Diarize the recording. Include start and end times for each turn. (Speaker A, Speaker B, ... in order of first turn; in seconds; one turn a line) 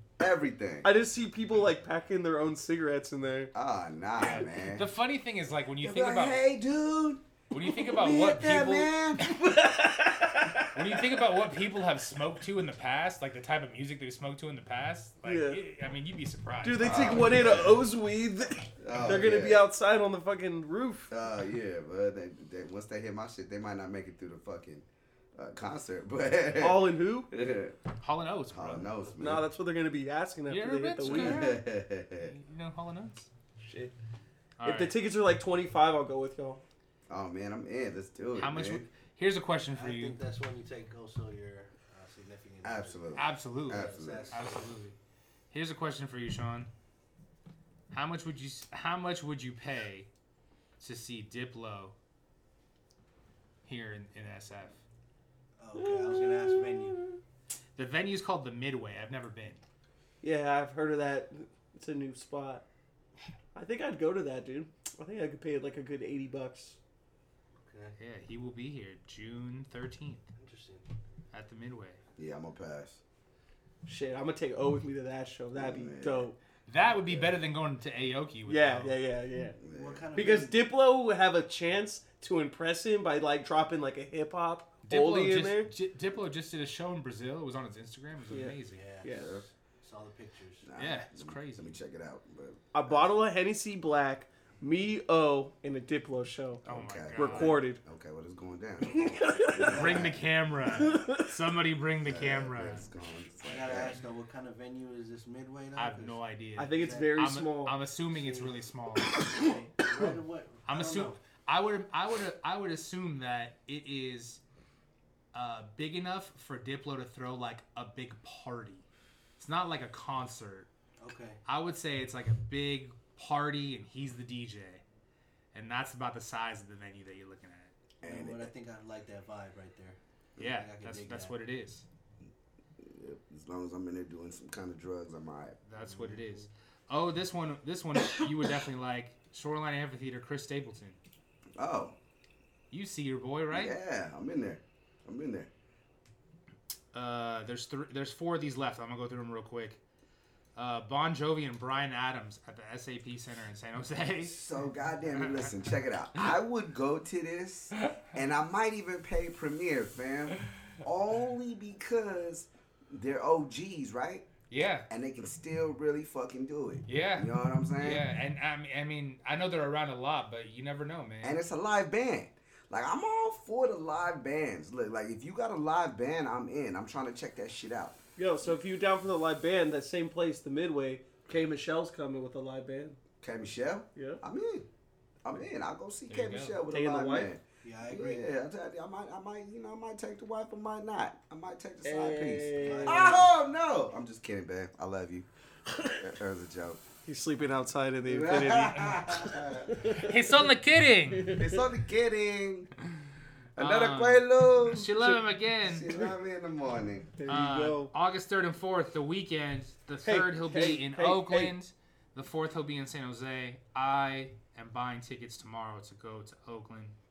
Speaker A: 0.2-0.9
Speaker B: 0.8-3.5
Speaker A: 3.5-4.9
Speaker C: 4.2-6.4
Speaker A: 5.8-9.4
Speaker C: 7.5-8.9
Speaker B: 9.2-11.2
Speaker C: 10.7-17.5
Speaker B: 15.2-15.6
Speaker B: 16.6-21.1
Speaker A: 16.8-17.8
Speaker A: 18.8-19.7
Speaker A: 21.1-27.8
Speaker B: 26.6-27.3
Speaker C: 28.0-28.9
Speaker A: 28.5-29.5
Speaker B: 29.2-31.6
Speaker C: 30.5-31.6
Speaker A: 31.0-32.3
Speaker C: 32.2-33.3
Speaker B: 33.6-33.9
Speaker C: 34.6-35.0
Speaker B: 34.6-36.6
Speaker A: 37.1-38.9
Speaker C: 38.3-40.2
Speaker D: 39.7-43.1
Speaker A: 42.6-44.3
Speaker C: 43.1-44.9
Speaker D: 43.7-44.7
Speaker C: 45.5-46.7
Speaker C: 47.9-50.1
Speaker C: 50.8-52.0
Speaker C: 53.6-54.8
Speaker D: 55.6-57.0
Speaker B: 55.7-57.2
Speaker C: 57.8-59.6
Speaker B: 60.2-62.6
Speaker B: 63.5-66.8
Speaker D: 67.6-68.0
Speaker C: 68.0-70.2
Speaker D: 70.3-70.8
Speaker C: 71.3-72.0
Speaker A: 72.2-73.0
Speaker B: 73.8-76.4
Speaker A: 75.5-76.3
Speaker C: 76.7-79.0
Speaker A: 76.9-77.3
Speaker B: 78.5-79.6
Speaker A: 79.6-80.1
Speaker D: 79.7-80.7
Speaker B: 80.1-85.7
Speaker C: 84.8-88.8
Speaker B: 88.3-89.3
Speaker D: 88.7-90.7
Speaker A: 89.0-89.5
Speaker A: 90.6-93.2
Speaker C: 90.8-91.8
Speaker B: 92.7-96.6
Speaker A: 96.6-100.2
Speaker C: 96.7-97.6
Speaker B: 97.1-97.8
Speaker B: 98.9-100.1
Speaker C: 99.6-102.9
Speaker B: 100.8-101.3
Speaker A: 102.0-104.0
Speaker D: 103.4-107.2
Speaker C: 105.8-109.2
Speaker B: 106.6-107.8
Speaker D: 108.0-111.2
Speaker B: 109.2-109.5
Speaker C: 110.7-114.4
Speaker C: 115.3-118.8
Speaker C: 119.4-120.7
Speaker D: 121.0-121.4
Speaker C: 121.5-124.8
Speaker C: 125.5-127.7
Speaker A: 128.0-128.5
Speaker D: 128.0-131.3
Speaker C: 130.4-131.8
Speaker A: 132.8-135.6
Speaker C: 135.7-141.0
Speaker D: 135.8-136.4
Speaker A: 141.6-141.9
Speaker C: 142.7-143.8
Speaker A: 143.5-145.5
Speaker C: 146.9-149.8
Speaker C: 150.6-154.5
Speaker A: 154.2-164.3
Speaker C: 155.2-155.5
Speaker C: 164.5-164.9
Speaker A: 164.9-168.1
Speaker C: 166.9-171.4
Speaker A: 171.2-178.0
Speaker B: 178.2-183.0
Speaker A: 183.2-184.7
Speaker B: 183.9-184.2
Speaker A: 185.2-195.3
Speaker C: 186.1-186.6
Speaker B: 186.7-187.3
Speaker D: 187.6-188.3
Speaker B: 191.8-193.2
Speaker D: 192.6-193.3
Speaker A: 195.9-196.8
Speaker B: 197.0-200.5
Speaker A: 198.1-199.8
Speaker C: 198.6-199.1
Speaker C: 199.9-201.4
Speaker B: 201.1-201.6
Speaker A: 201.3-202.7
Speaker A: 203.6-207.2
Speaker C: 203.6-205.9
Speaker B: 205.9-206.1
Speaker B: 207.2-207.9
Speaker C: 207.2-216.9
Speaker B: 210.0-211.5